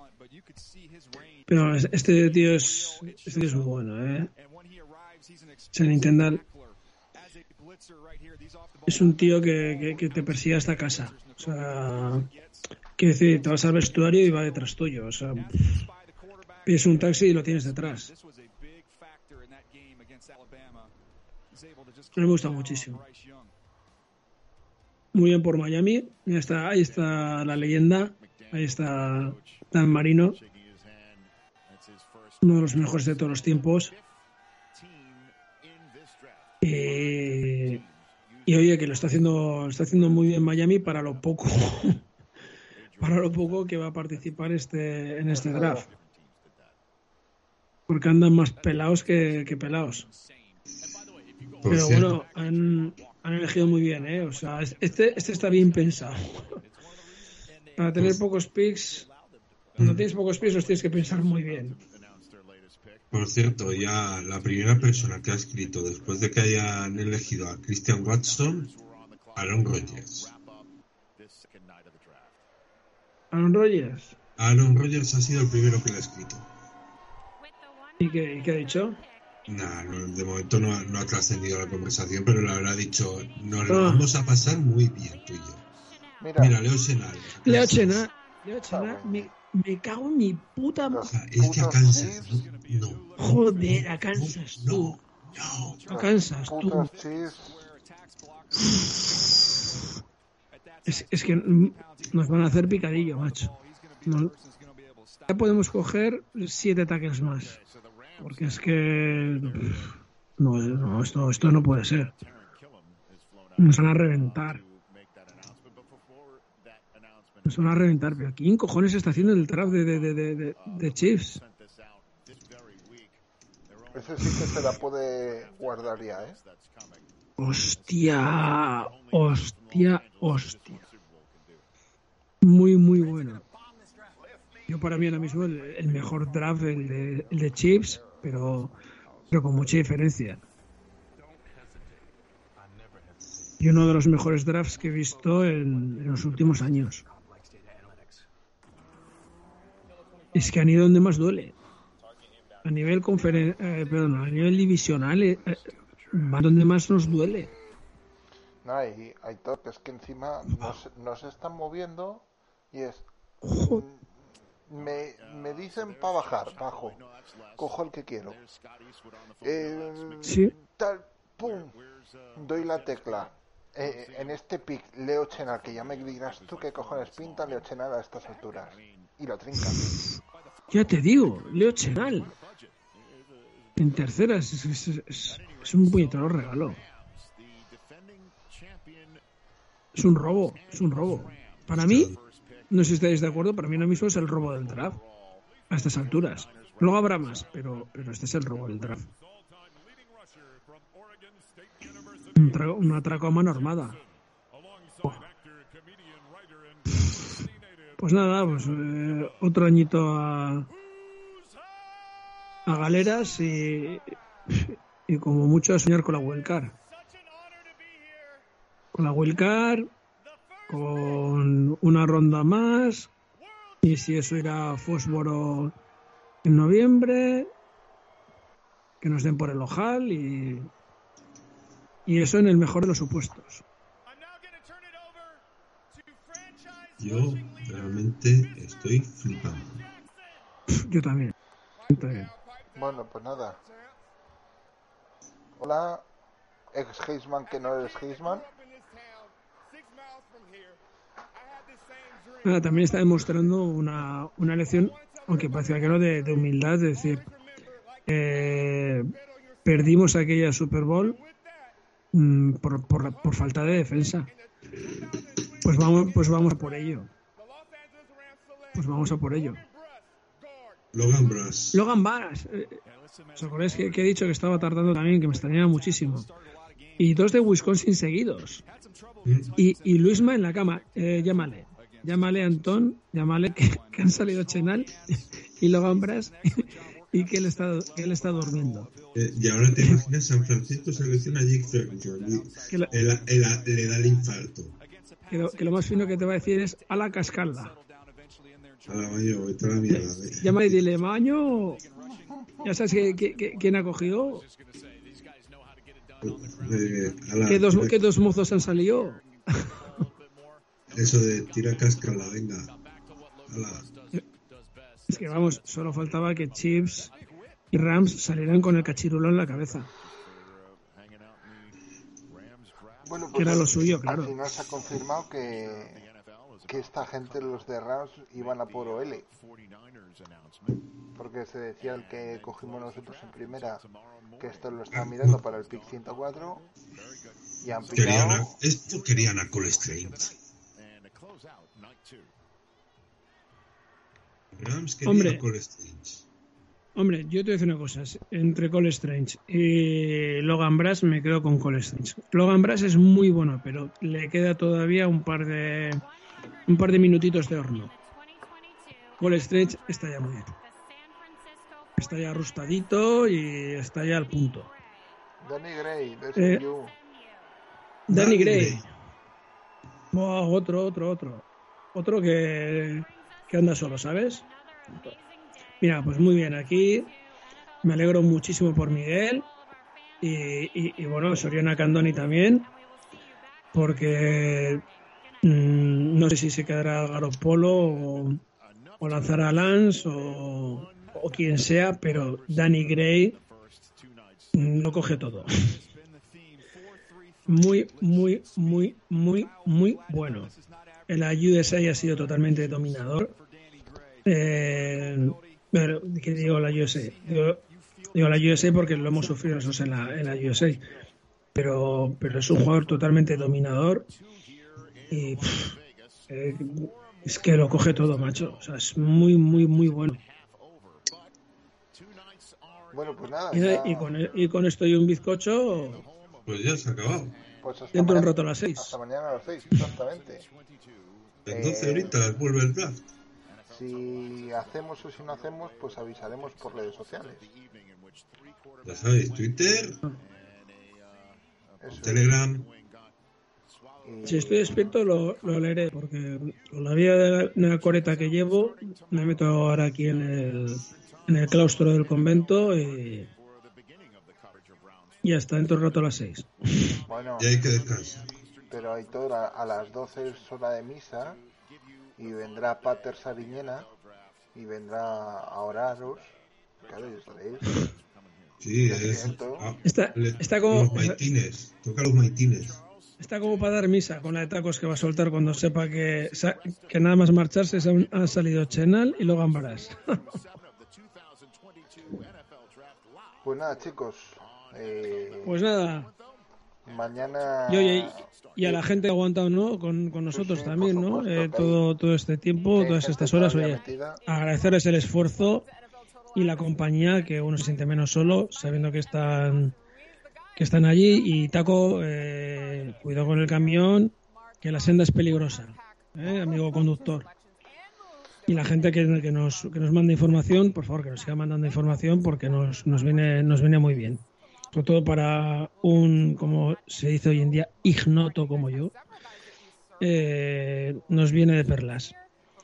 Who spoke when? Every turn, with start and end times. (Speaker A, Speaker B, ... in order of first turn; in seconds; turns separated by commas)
Speaker A: 1.5-4.3, Speaker A: 5.7-6.4, Speaker A: 8.8-12.3, Speaker A: 13.0-15.8, Speaker A: 16.6-18.1, Speaker A: 22.1-23.0, Speaker A: 25.1-30.4, Speaker A: 32.4-33.9, Speaker A: 36.6-37.8, Speaker A: 38.5-42.0, Speaker A: 43.0-45.9, Speaker B: 45.3-45.9, Speaker A: 47.9-50.1, Speaker C: 51.6-52.2, Speaker A: 51.6-56.6, Speaker A: 57.8-59.1, Speaker C: 59.8-60.0, Speaker A: 59.8-61.8, Speaker C: 63.1-68.7, Speaker C: 69.3-70.3, Speaker A: 73.3-74.1, Speaker C: 74.4-76.5, Speaker A: 78.0-79.0, Speaker C: 79.5-85.6, Speaker A: 83.7-84.1, Speaker B: 86.2-86.6, Speaker C: 86.4-88.1, Speaker A: 87.4-91.0, Speaker B: 88.7-89.3, Speaker B: 90.8-92.5, Speaker C: 91.1-93.1, Speaker A: 93.2-95.0, Speaker C: 93.6-95.8, Speaker A: 95.9-96.9, Speaker B: 95.9-97.7, Speaker A: 100.9-103.5, Speaker A: 104.0-104.3, Speaker A: 105.3-107.6, Speaker A: 108.2-112.1, Speaker A: 113.6-114.6, Speaker A: 117.5-121.4, Speaker B: 123.9-126.4, Speaker A: 127.4-130.8, Speaker A: 132.4-133.4, Speaker A: 134.7-138.7, Speaker A: 139.3-140.4, Speaker A: 143.6-147.0, Speaker A: 150.3-151.5, Speaker A: 152.6-157.5, Speaker B: 158.6-163.1, Speaker A: 163.4-163.8, Speaker B: 163.6-164.1, Speaker B: 164.7-167.0, Speaker B: 167.6-168.4, Speaker B: 169.4-171.8, Speaker A: 170.2-170.5, Speaker B: 172.3-179.9, Speaker A: 179.6-180.1, Speaker A: 180.7-182.3, Speaker A: 183.8-186.8, Speaker A: 189.9-192.1, Speaker C: 191.1-192.2, Speaker A: 192.7-195.0, Speaker A: 195.7-199.1, Speaker A: 202.3-204.0, Speaker A: 206.9-207.3, Speaker A: 208.0-210.7, Speaker A: 212.7-216.7, Speaker A: 218.9-219.9, Speaker A: 220.7-223.1, Speaker A: 223.8-225.7, Speaker A: 226.4-227.5, Speaker A: 229.0-230.7, Speaker A: 232.1-233.6, Speaker C: 237.0-239.9, Speaker A: 240.7-241.3, Speaker A: 241.9-242.3, Speaker B: 242.7-243.6, Speaker B: 245.6-246.1, Speaker B: 246.7-248.5, Speaker A: 252.4-257.3, Speaker A: 258.1-259.1, Speaker A: 259.6-261.2, Speaker A: 262.1-264.3, Speaker A: 265.6-267.1, Speaker A: 268.7-269.6, Speaker C: 270.9-271.8, Speaker A: 271.7-272.8, Speaker A: 273.4-276.3, Speaker A: 277.0-278.6, Speaker C: 279.2-279.5, Speaker A: 279.6-288.9, Speaker C: 289.1-294.8, Speaker A: 289.7-290.0, Speaker A: 292.7-292.9, Speaker A: 295.3-297.8, Speaker C: 298.9-300.8, Speaker A: 299.9-301.8, Speaker B: 302.0-302.8, Speaker A: 302.6-304.4, Speaker C: 306.2-308.0, Speaker A: 307.4-309.9, Speaker C: 310.9-312.7, Speaker C: 313.5-313.9, Speaker A: 315.1-317.1, Speaker A: 317.7-319.9, Speaker B: 323.0-326.1, Speaker A: 323.4-324.3, Speaker B: 326.6-329.3, Speaker B: 331.2-333.8, Speaker B: 334.4-336.6, Speaker C: 334.9-335.4, Speaker B: 337.6-338.5, Speaker C: 337.9-340.4, Speaker C: 344.5-346.2, Speaker A: 345.1-345.4, Speaker A: 346.9-356.0, Speaker A: 356.7-357.9, Speaker A: 359.2-360.5, Speaker A: 362.0-364.7, Speaker B: 365.4-366.9, Speaker A: 366.4-366.6, Speaker A: 368.1-368.9, Speaker C: 368.1-368.9, Speaker A: 370.1-375.1, Speaker A: 375.8-377.1, Speaker A: 377.8-379.5, Speaker A: 380.2-382.7, Speaker A: 383.7-384.8, Speaker A: 385.4-388.4, Speaker A: 389.0-393.4, Speaker A: 394.5-395.7, Speaker A: 397.5-400.5, Speaker A: 401.1-403.3, Speaker A: 404.2-407.6, Speaker A: 408.1-410.8, Speaker A: 411.5-414.1, Speaker A: 415.1-415.8, Speaker A: 416.3-420.2, Speaker B: 422.9-424.1, Speaker A: 423.5-426.0, Speaker C: 426.4-427.4, Speaker B: 427.6-430.5, Speaker A: 427.9-428.9, Speaker C: 431.4-433.0, Speaker B: 431.5-432.2, Speaker B: 433.7-437.5, Speaker C: 438.8-440.0, Speaker B: 441.8-442.4, Speaker C: 441.9-442.7, Speaker B: 444.0-444.9, Speaker A: 444.2-453.3, Speaker A: 455.2-457.0, Speaker B: 457.1-457.5, Speaker C: 457.4-458.3, Speaker B: 458.7-461.4, Speaker B: 462.2-463.9, Speaker B: 464.5-466.3, Speaker B: 466.8-467.9, Speaker C: 468.6-472.8, Speaker B: 468.8-469.6, Speaker A: 469.8-471.2, Speaker A: 473.2-480.1, Speaker B: 483.4-485.6, Speaker A: 485.4-486.1, Speaker B: 486.8-488.8, Speaker A: 487.7-495.7, Speaker B: 490.3-491.8, Speaker B: 492.7-494.2, Speaker A: 496.3-499.7, Speaker A: 500.6-507.3, Speaker A: 508.5-518.9, Speaker A: 520.0-522.1